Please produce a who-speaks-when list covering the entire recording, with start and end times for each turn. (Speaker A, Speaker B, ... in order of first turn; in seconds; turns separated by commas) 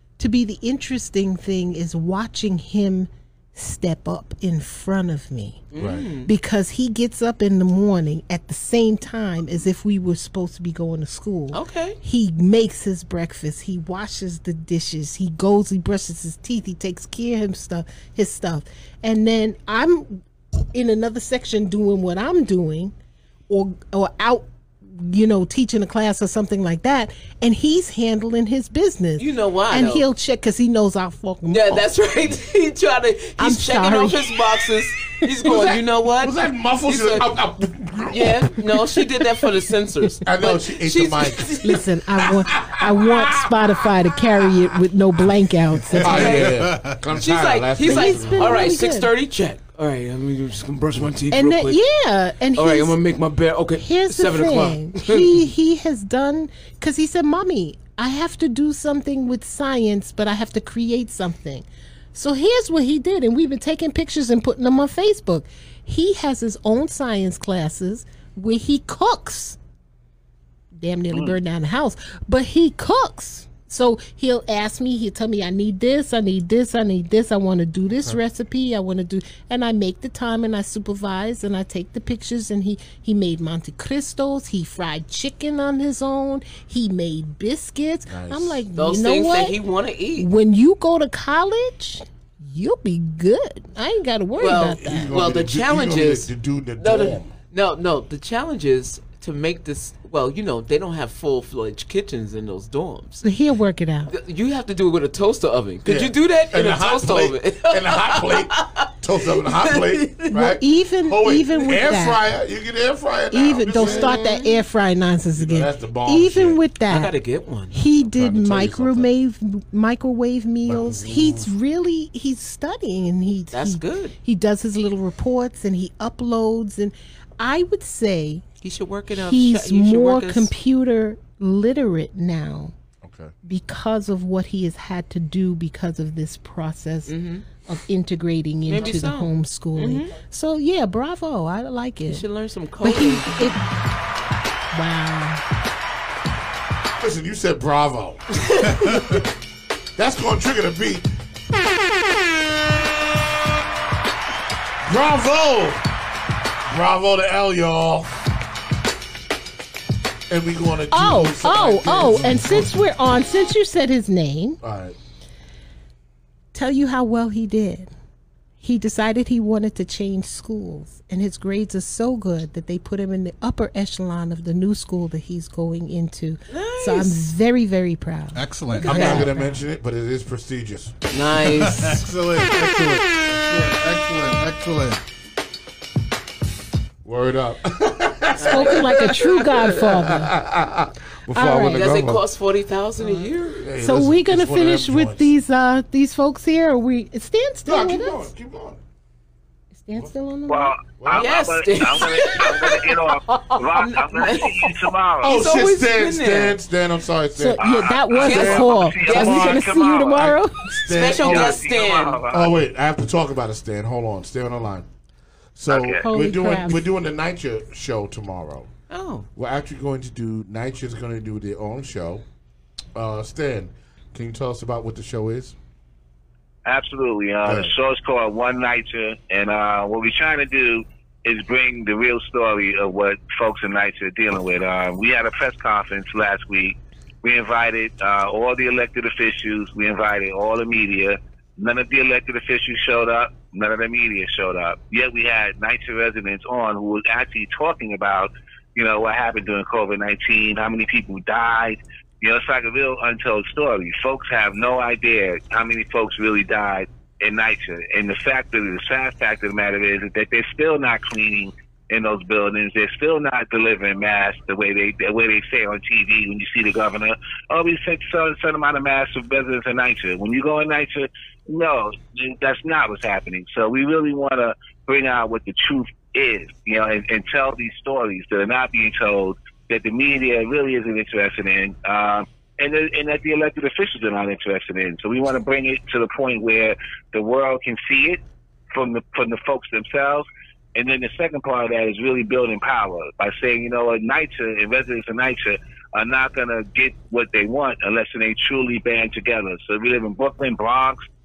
Speaker A: 0.2-5.7, Speaker B: 5.7-6.3, Speaker C: 5.8-6.1, Speaker A: 6.2-22.9, Speaker B: 11.5-12.0, Speaker A: 23.5-31.9, Speaker B: 29.2-30.1, Speaker B: 31.5-37.3, Speaker A: 33.4-34.4, Speaker C: 35.4-38.8, Speaker B: 38.1-41.8, Speaker C: 40.2-44.5, Speaker A: 41.6-46.4, Speaker D: 45.9-47.0, Speaker C: 45.9-48.8, Speaker B: 46.1-46.6, Speaker B: 47.1-51.8, Speaker A: 47.8-49.1, Speaker A: 51.3-53.0, Speaker B: 52.5-55.4, Speaker A: 53.8-69.6, Speaker A: 70.7-89.6, Speaker C: 77.9-78.2, Speaker C: 88.1-88.6, Speaker B: 88.8-90.3, Speaker A: 90.2-95.1, Speaker B: 94.4-103.2, Speaker C: 94.8-97.3, Speaker A: 103.2-104.1, Speaker B: 104.1-110.5, Speaker C: 105.8-114.2, Speaker A: 110.3-112.2, Speaker A: 113.3-117.1, Speaker B: 113.7-114.6, Speaker C: 115.3-116.6, Speaker B: 116.9-117.8, Speaker A: 117.7-128.4, Speaker C: 118.0-119.1, Speaker C: 120.6-121.5, Speaker B: 123.5-124.2, Speaker B: 128.6-130.5, Speaker A: 129.2-132.7, Speaker C: 133.0-133.3, Speaker A: 133.4-142.2, Speaker B: 137.1-137.5, Speaker B: 138.7-140.1, Speaker B: 142.1-143.5, Speaker A: 142.8-143.7, Speaker A: 144.7-145.4, Speaker C: 147.0-148.3, Speaker C: 150.0-151.1, Speaker C: 154.8-155.8, Speaker C: 156.7-158.1, Speaker C: 160.3-162.9, Speaker A: 160.9-164.6, Speaker C: 164.6-165.0, Speaker A: 166.5-167.9, Speaker A: 168.6-179.3, Speaker B: 176.5-177.2, Speaker D: 178.3-179.3, Speaker B: 178.8-179.3, Speaker C: 178.9-181.0, Speaker B: 181.1-182.1, Speaker D: 181.4-185.0, Speaker C: 187.0-192.2, Speaker B: 188.4-189.3, Speaker A: 188.5-190.3, Speaker A: 191.3-191.9, Speaker B: 191.7-193.7, Speaker C: 193.6-195.3, Speaker A: 193.8-198.3, Speaker C: 197.7-198.8, Speaker A: 199.7-200.8, Speaker E: 200.5-205.3, Speaker C: 201.0-201.3, Speaker B: 201.1-203.0, Speaker A: 203.3-203.6, Speaker B: 203.6-206.6, Speaker C: 205.2-211.7, Speaker A: 207.3-211.0, Speaker E: 207.6-210.3, Speaker B: 208.2-209.6, Speaker B: 210.9-212.2, Speaker E: 211.1-212.6, Speaker C: 212.3-214.9, Speaker C: 215.6-218.7, Speaker E: 215.7-216.1, Speaker A: 216.0-216.8, Speaker B: 218.9-219.3, Speaker C: 219.4-222.2, Speaker C: 222.9-225.6, Speaker E: 226.7-288.2, Speaker C: 227.4-227.8, Speaker E: 288.7-301.0